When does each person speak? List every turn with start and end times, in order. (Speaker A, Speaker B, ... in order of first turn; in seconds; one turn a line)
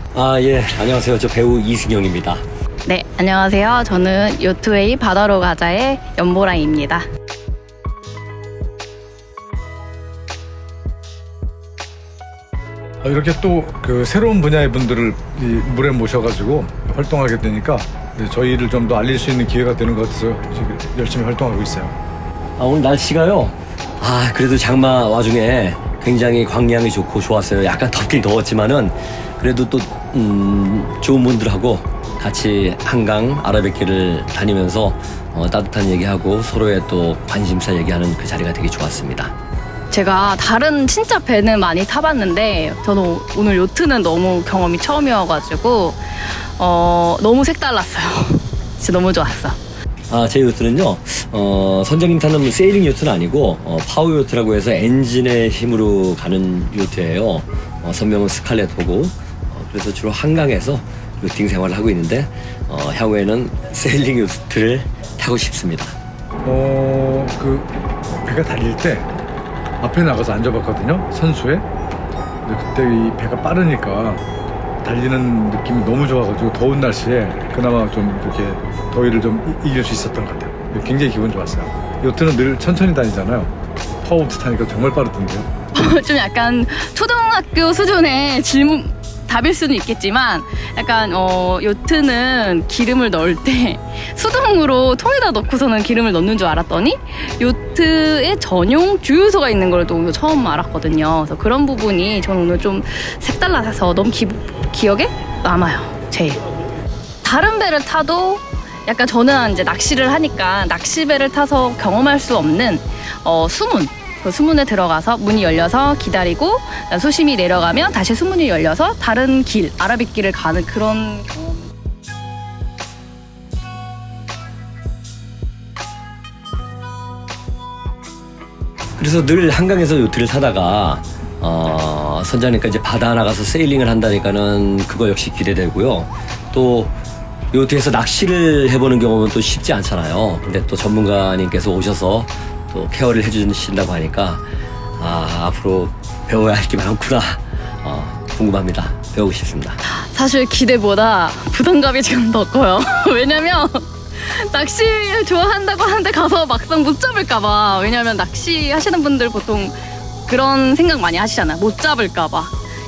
Speaker A: 0.1-2.4
Speaker B: 2.9-7.1
Speaker C: 13.0-22.0
Speaker A: 22.6-39.3
Speaker B: 39.9-49.6
Speaker A: 50.1-66.0
Speaker C: 66.4-67.7
Speaker C: 68.2-69.1
Speaker C: 69.8-71.7
Speaker C: 72.4-74.2
Speaker C: 74.8-85.5
Speaker B: 85.7-106.4
Speaker B: 107.2-121.7
Speaker A: 129.0-136.9
Speaker A: 137.5-144.4
Speaker A: 145.0-149.8
Speaker B: 149.9-162.5